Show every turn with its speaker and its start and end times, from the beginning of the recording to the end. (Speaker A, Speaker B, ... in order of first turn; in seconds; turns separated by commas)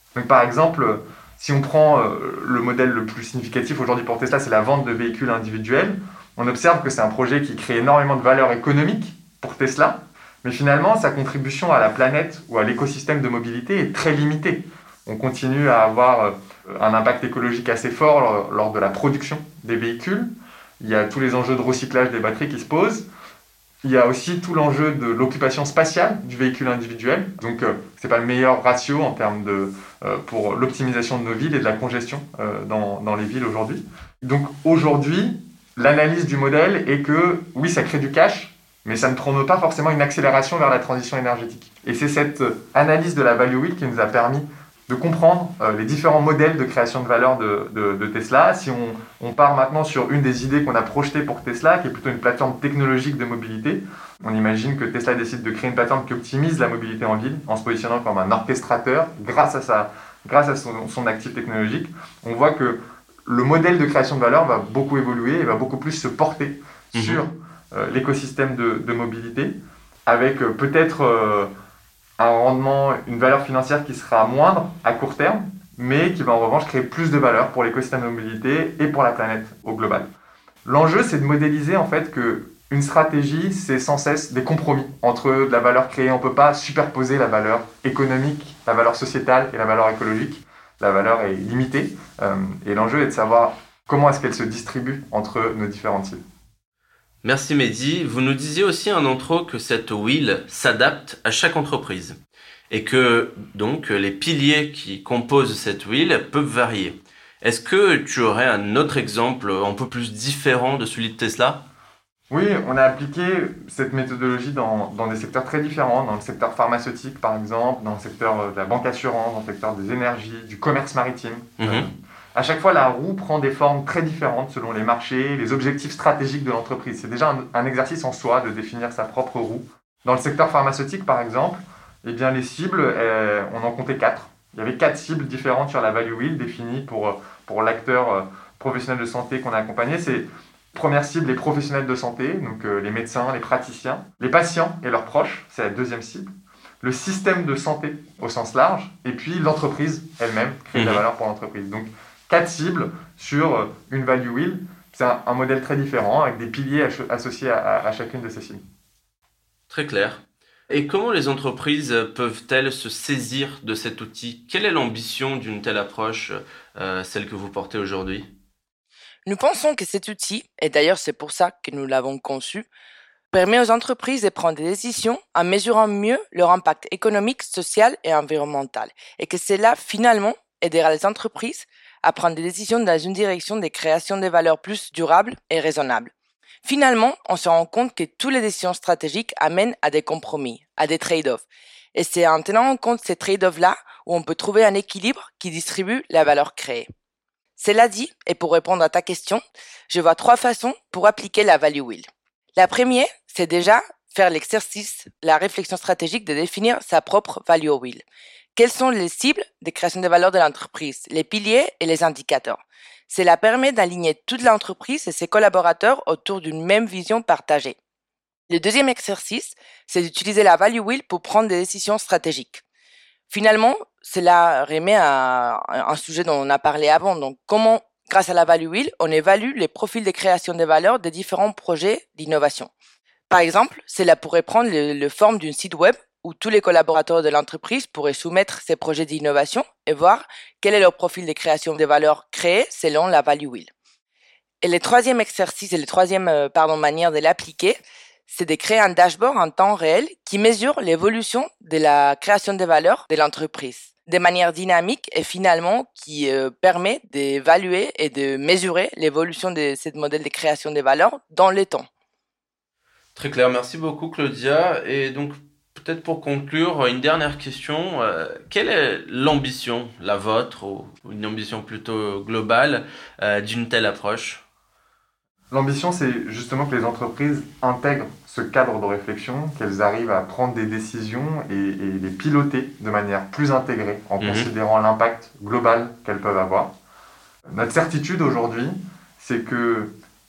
Speaker A: 0.1-20.3, Speaker A: 20.8-23.1, Speaker A: 23.8-69.5, Speaker B: 66.9-67.2, Speaker A: 70.1-71.5, Speaker A: 72.2-80.1, Speaker A: 80.7-96.2, Speaker B: 97.2-102.2, Speaker B: 102.7-111.6, Speaker A: 112.3-146.3, Speaker B: 121.6-121.9, Speaker A: 146.8-158.6, Speaker B: 150.7-151.1, Speaker B: 159.7-168.3, Speaker C: 169.3-172.7, Speaker C: 173.3-186.1, Speaker C: 186.6-196.9, Speaker C: 197.6-217.8, Speaker C: 218.5-222.6, Speaker C: 223.3-232.7, Speaker C: 233.3-243.7, Speaker C: 244.6-261.9, Speaker B: 263.1-274.4, Speaker A: 275.5-286.7, Speaker B: 284.2-284.5, Speaker A: 287.5-289.9